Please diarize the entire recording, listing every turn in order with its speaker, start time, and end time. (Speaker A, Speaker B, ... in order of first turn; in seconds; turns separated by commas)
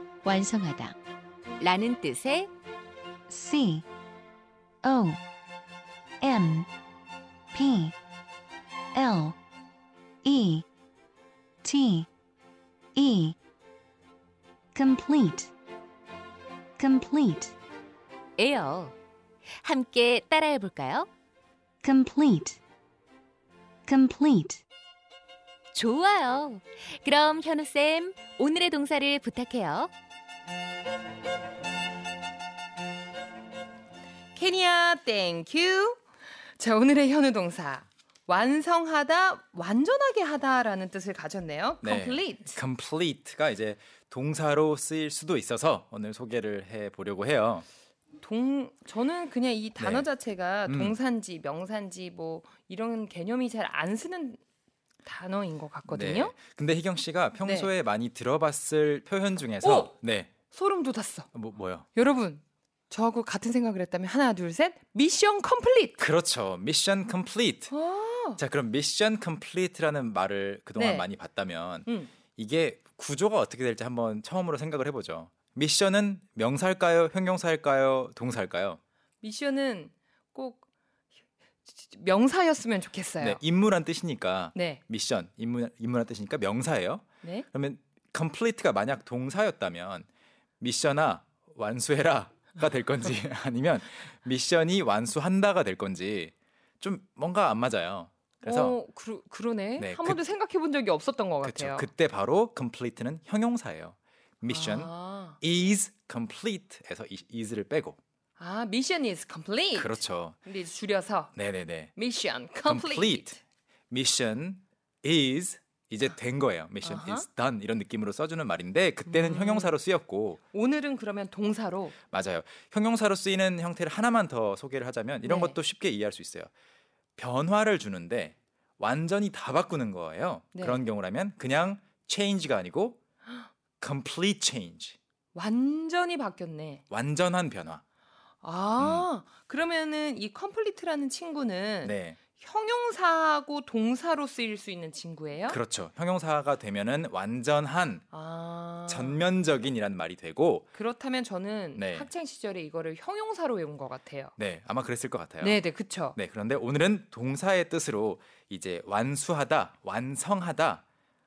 Speaker A: 0.2-1.0, Speaker A: 1.6-2.5, Speaker B: 3.3-3.9, Speaker B: 4.8-5.2, Speaker B: 6.2-6.7, Speaker B: 7.5-8.0, Speaker B: 8.9-9.4, Speaker B: 10.2-10.7, Speaker B: 11.6-12.1, Speaker B: 12.9-13.4, Speaker B: 14.8-15.5, Speaker B: 16.8-17.5, Speaker A: 18.4-18.9, Speaker A: 19.6-21.1, Speaker B: 21.8-22.6, Speaker B: 23.9-24.6, Speaker A: 25.7-29.9, Speaker C: 34.4-36.0, Speaker C: 36.6-42.6, Speaker D: 41.8-47.7, Speaker C: 48.2-54.4, Speaker D: 49.8-50.1, Speaker D: 50.7-51.0, Speaker C: 55.0-56.3, Speaker D: 55.9-60.3, Speaker C: 57.4-57.7, Speaker C: 59.6-59.9, Speaker C: 60.5-61.3, Speaker D: 61.3-61.9, Speaker C: 61.9-66.0, Speaker D: 66.0-67.7, Speaker C: 67.7-68.4, Speaker D: 68.4-78.8, Speaker C: 70.8-71.1, Speaker C: 71.9-72.1, Speaker C: 79.2-80.6, Speaker C: 81.7-83.4, Speaker D: 83.2-90.1, Speaker C: 84.5-84.8, Speaker C: 87.2-87.5, Speaker D: 90.6-98.8, Speaker C: 98.4-101.9, Speaker D: 99.8-100.2, Speaker D: 101.4-108.0, Speaker C: 104.5-105.4, Speaker C: 108.4-111.4, Speaker D: 109.8-110.4, Speaker D: 111.3-111.9, Speaker C: 112.0-113.4, Speaker D: 112.7-113.4, Speaker D: 113.9-120.4, Speaker C: 116.8-117.3, Speaker C: 119.1-119.7, Speaker C: 120.5-121.9, Speaker D: 122.1-126.5, Speaker C: 125.2-125.6, Speaker D: 127.2-133.0, Speaker C: 130.6-130.8, Speaker D: 133.8-135.0, Speaker C: 135.3-136.8, Speaker D: 136.9-137.8, Speaker C: 138.4-145.6, Speaker D: 138.8-139.1, Speaker D: 141.8-142.2, Speaker D: 145.5-148.1, Speaker C: 148.1-149.2, Speaker D: 148.9-150.7, Speaker C: 150.7-154.3, Speaker D: 151.8-152.1, Speaker D: 154.4-155.6, Speaker C: 155.4-156.2, Speaker D: 156.2-160.8